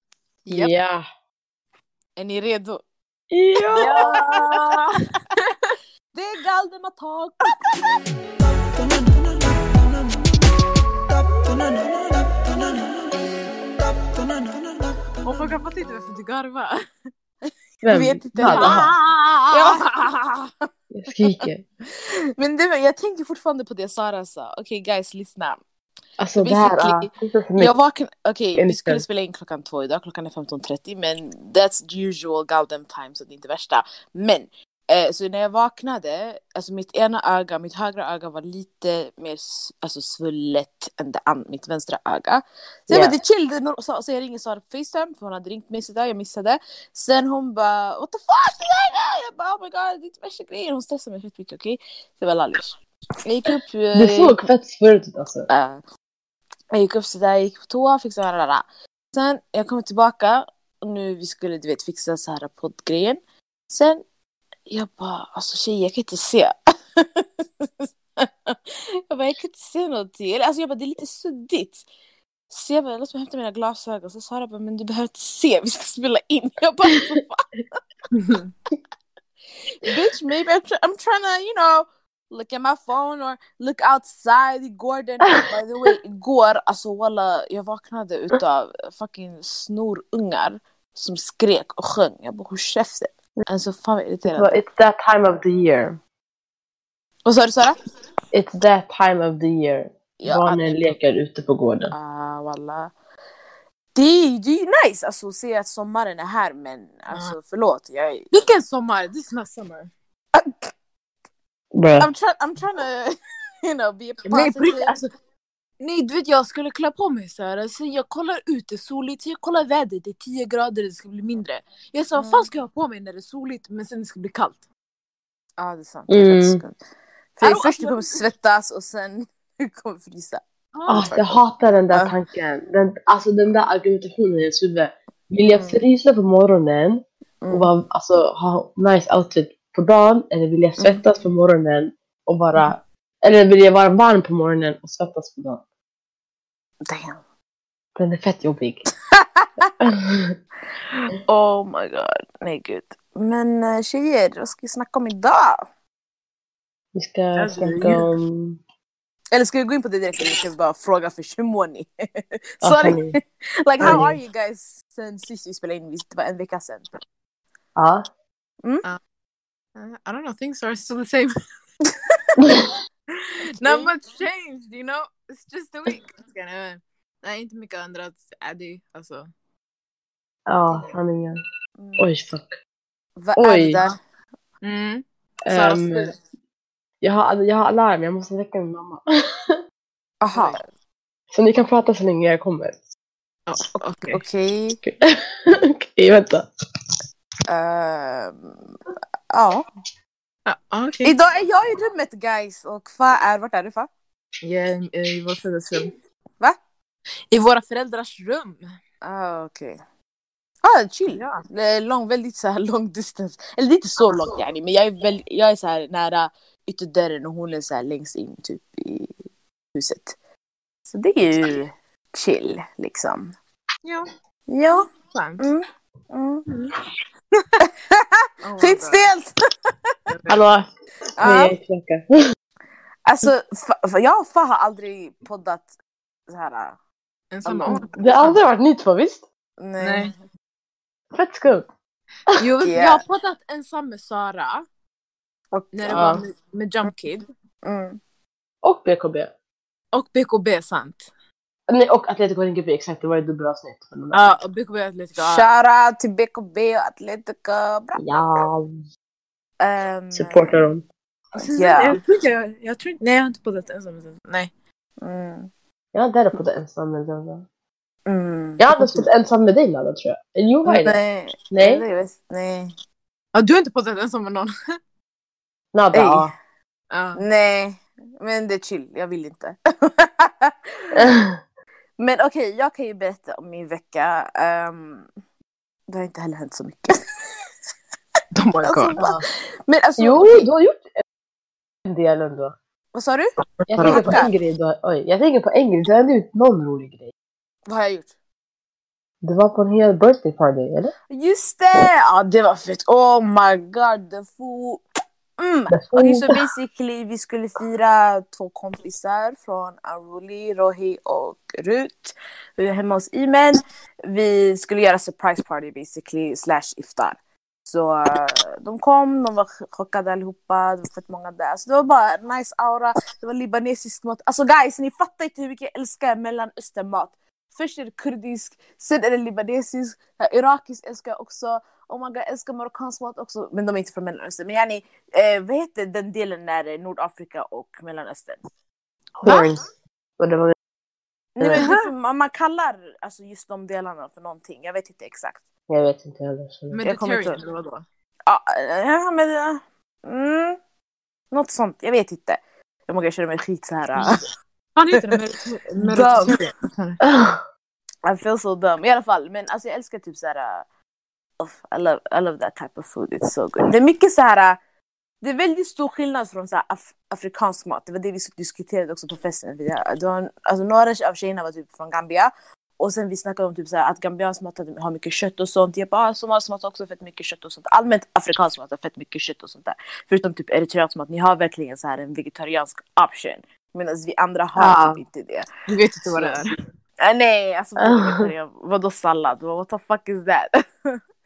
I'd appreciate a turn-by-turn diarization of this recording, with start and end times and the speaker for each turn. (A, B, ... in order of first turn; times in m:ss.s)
0:00.4-0:00.7 A
0:00.5-0:01.0 B
0:02.2-0:02.8 A
0:03.3-0:04.2 B
0:03.7-0:04.8 A
0:03.8-0:04.8 C
0:06.1-0:07.8 A
0:15.2-0:16.8 C
0:17.8-0:18.9 B
0:17.9-0:20.5 A
0:17.9-0:18.9 C
0:19.5-0:19.8 C
0:20.9-0:21.6 B
0:21.9-0:25.6 A
0:26.2-0:27.7 B
0:26.4-0:52.7 A
0:28.6-0:29.0 B
0:42.9-0:43.2 B
0:53.2-0:54.4 A
0:54.0-0:55.5 B
0:55.5-0:55.8 A
0:56.7-1:04.0 A
1:04.7-1:11.9 A
1:12.5-1:17.5 A
1:18.1-1:18.5 C
1:19.8-1:34.6 A
1:34.3-1:36.0 B
1:37.3-1:37.8 A
1:38.3-1:41.9 B
1:40.2-1:41.0 A
1:41.9-1:42.9 A
1:44.0-1:48.3 A
1:48.3-1:49.9 C
1:50.4-1:50.7 A
1:51.7-1:52.1 B
1:52.0-1:55.0 A
1:54.3-1:55.1 C
1:55.8-2:04.6 C
2:02.2-2:02.5 A
2:05.6-2:06.8 A
2:06.1-2:06.6 B
2:07.4-2:11.4 A
2:07.4-2:08.1 C
2:10.8-2:11.2 C
2:10.9-2:25.6 B
2:15.5-2:15.8 A
2:17.4-2:17.7 A
2:20.8-2:21.0 A
2:26.9-2:27.2 A
2:28.0-2:28.8 B
2:29.2-2:29.6 A
2:29.8-2:30.4 B
2:31.1-2:35.6 A
2:37.0-2:38.6 B
2:37.4-2:38.1 C
2:39.3-2:46.9 A
2:42.6-2:43.2 B
2:43.8-2:44.2 B
2:47.8-2:48.0 B
2:49.8-2:51.3 C
2:52.4-2:52.7 B
2:53.6-2:59.3 C
3:00.5-3:01.4 B
3:01.8-3:02.1 A
3:02.0-3:02.6 B
3:03.2-3:04.0 A
3:03.4-3:03.8 B
3:04.6-3:06.2 C
3:05.4-3:06.1 B
3:07.0-3:09.6 B
3:10.2-3:10.6 A
3:11.3-3:12.8 B
3:13.5-3:14.2 C
3:14.1-3:14.8 A
3:14.8-3:16.5 B
3:17.5-3:18.7 A
3:19.3-3:19.7 A
3:20.5-3:21.1 C
3:21.0-3:23.9 A
3:24.4-3:25.9 C
3:27.3-3:28.6 C
3:29.0-3:29.8 A
3:30.6-3:39.1 A
3:31.1-3:31.4 C
3:39.7-3:40.2 A
3:40.9-3:43.4 A
3:44.5-3:44.8 A
3:45.1-3:45.5 C
3:45.4-3:46.5 A
3:47.7-3:49.3 A
3:48.4-3:49.1 C
3:50.1-3:50.4 C
3:50.3-3:52.1 B
3:51.2-3:51.6 A
3:53.0-3:55.7 A
3:56.3-3:56.8 A
3:57.3-3:58.4 C
3:57.5-3:57.9 A
3:57.9-3:59.3 B
3:59.6-4:00.1 A
3:59.8-4:00.1 C
4:01.1-4:01.7 B
4:02.4-4:04.6 C
4:02.6-4:03.0 A
4:05.5-4:06.2 A
4:05.7-4:07.2 C
4:05.9-4:06.2 B
4:07.6-4:08.0 A
4:08.6-4:09.3 B
4:09.9-4:11.1 C
4:11.7-4:14.4 B
4:14.1-4:15.5 C
4:15.2-4:18.0 A
4:18.0-4:18.8 B
4:19.6-4:20.7 A
4:20.1-4:20.8 B
4:21.4-4:24.5 C
4:21.6-4:22.0 A
4:25.0-4:25.5 A
4:25.9-4:27.4 B
4:28.1-4:29.0 A
4:28.6-4:31.0 B
4:30.7-4:32.7 A
4:31.5-4:31.8 B
4:33.4-4:34.5 C
4:35.7-4:36.3 B
4:35.9-4:36.3 A
4:36.9-4:37.2 C
4:37.2-4:40.9 A
4:41.0-4:41.4 B
4:42.0-4:45.1 A
4:45.9-4:47.0 A
4:48.3-4:49.0 C
4:48.6-4:50.5 A
4:49.0-4:49.2 B
4:50.0-4:50.9 B
4:51.9-4:52.6 B
4:52.9-4:54.3 A
4:53.6-4:54.1 C
4:53.7-4:57.1 B
4:57.7-4:58.1 A
4:59.2-5:00.9 B
5:01.1-5:04.8 A
5:05.4-5:38.5 A
5:05.7-5:06.4 B
5:39.2-5:39.6 B
5:40.2-5:40.6 B
5:41.4-5:45.4 A
5:41.4-5:41.7 B
5:41.6-5:41.8 C
5:45.7-5:46.8 B
5:46.7-5:47.8 C
5:46.8-5:47.4 A
5:48.3-5:50.6 A
5:51.3-5:54.2 A
5:54.8-5:57.0 C
5:55.9-5:56.4 A
5:57.0-5:57.4 B
5:58.0-6:00.6 A
6:01.4-6:04.6 A
6:05.2-6:25.5 A
6:24.6-6:25.0 B
6:25.7-6:26.5 C
6:27.0-6:31.0 A
6:27.8-6:28.3 B